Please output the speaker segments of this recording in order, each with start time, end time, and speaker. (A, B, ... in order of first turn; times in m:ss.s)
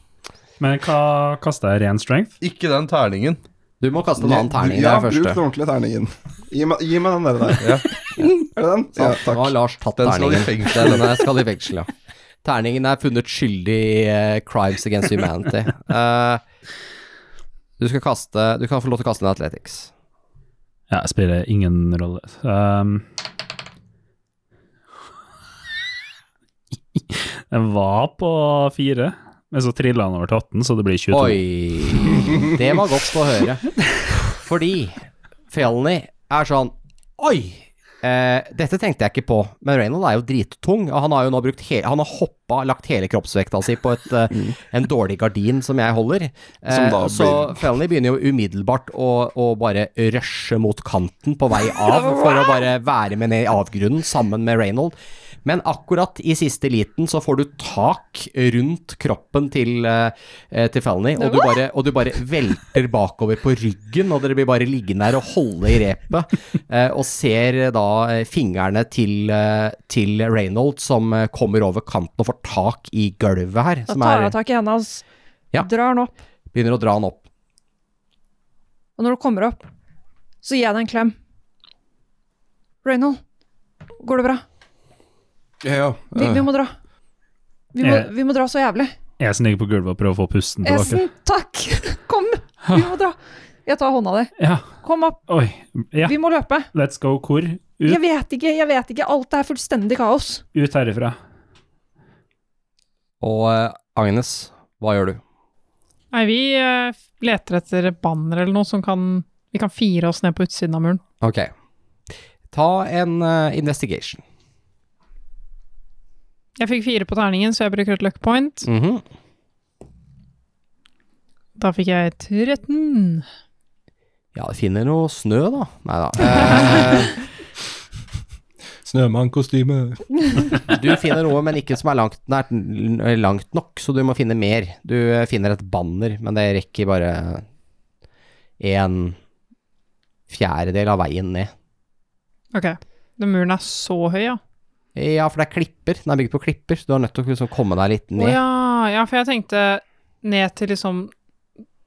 0:00.6-0:02.3 A
0:02.4-0:03.4 B
0:03.8-0:05.4 C
0:04.2-0:09.5 D
0:07.6-0:07.9 B
0:09.0-0:11.9 C
0:10.0-0:11.1 B
0:12.4-0:16.4 C
0:17.8-0:19.9 C
0:20.9-0:23.0 A
0:27.0-0:31.4 A
0:31.1-0:33.7 C
0:34.4-1:14.4 C
0:46.7-0:47.6 D
1:01.2-1:01.5 E
1:13.9-1:15.0 E
1:15.6-1:16.1 E
1:16.5-1:17.2 C
1:19.0-1:19.6 E
1:20.4-1:21.1 E
1:22.8-1:23.2 E
1:24.0-1:24.4 E
1:25.6-1:26.5 D
1:26.1-1:26.7 E
1:27.7-1:28.9 E
1:27.8-1:28.1 A
1:29.2-1:31.0 A
1:30.6-1:35.2 E
1:34.4-1:34.7 A
1:35.3-1:36.1 A
1:36.0-1:36.7 E
1:36.7-1:38.0 A
1:37.8-1:40.4 E
1:40.6-1:41.2 A
1:43.2-1:45.2 C
1:46.1-1:51.0 F
1:51.2-1:51.5 C
1:52.5-1:54.2 C
1:56.6-1:58.7 F
1:58.6-1:59.0 C
2:01.6-2:03.3 F
2:04.4-2:07.1 C
2:08.8-2:10.7 D
2:10.7-2:17.4 C
2:18.6-2:19.2 C
2:20.3-2:21.5 C
2:22.5-2:24.4 F
2:25.0-2:28.4 C
2:28.2-2:31.1 F